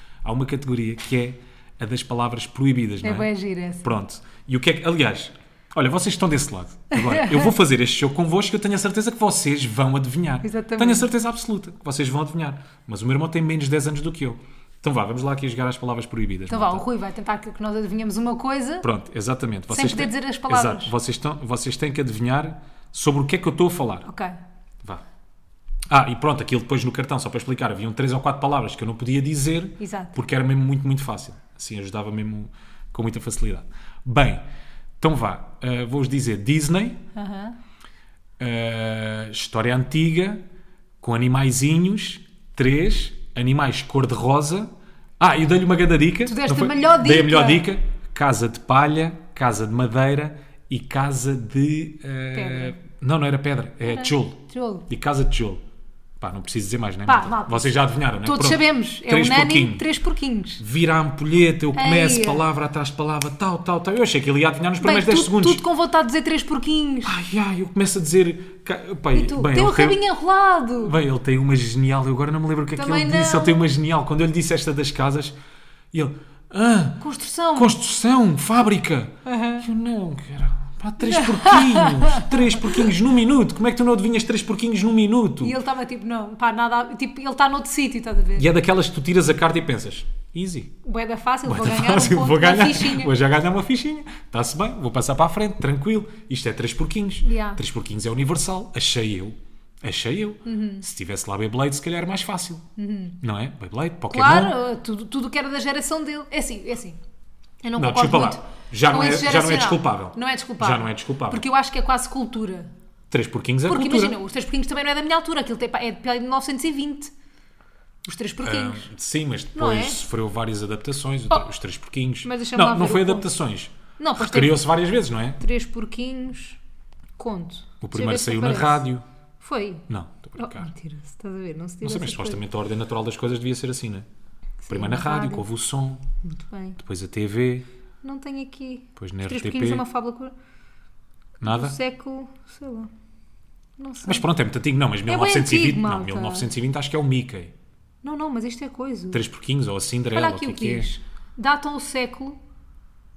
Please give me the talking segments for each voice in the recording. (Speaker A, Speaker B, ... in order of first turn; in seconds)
Speaker A: 0.2-3.3, 3.8-16.9, 18.8-24.1, 25.9-34.4, 35.0-37.0, 38.4-40.4, 41.0-55.6, 56.2-59.9, 60.6-65.6, 67.0-70.0, 70.8-75.3, 75.9-77.0, 77.5-85.6, 88.3-90.7, 91.5-102.7, 103.2-104.6, 107.8-111.4, 113.1-114.2, 118.4-125.4, 127.8-129.1, 129.9-130.7, 131.8-134.1, 134.7-136.0, 136.8-137.7, 139.0-139.8, 141.4-141.8, 144.0-147.5, 149.1-150.9
Speaker B: 3.0-3.9, 6.9-7.5, 10.4-11.1, 16.5-18.9, 19.7-20.9, 24.1-24.4, 29.8-30.2, 37.1-37.6, 46.3-47.7, 52.3-52.8, 53.9-54.9, 57.1-60.6, 61.8-62.4, 64.8-67.2, 69.1-71.0, 72.8-73.7, 77.0-77.8, 79.2-79.7, 81.0-82.9, 85.4-88.5, 90.8-93.1, 97.2-97.6, 100.5-100.8, 102.8-103.2, 104.1-107.0, 107.6-112.7, 113.7-117.1, 118.1-118.9, 119.5-120.0, 122.2-123.3, 124.0-124.7, 125.4-126.6, 127.2-128.9, 129.4-129.9, 130.4-132.4, 134.6-135.5, 136.2-136.8, 138.0-140.3, 141.4-142.9, 143.8-144.3, 145.1-146.5, 148.0-149.2, 150.1-152.4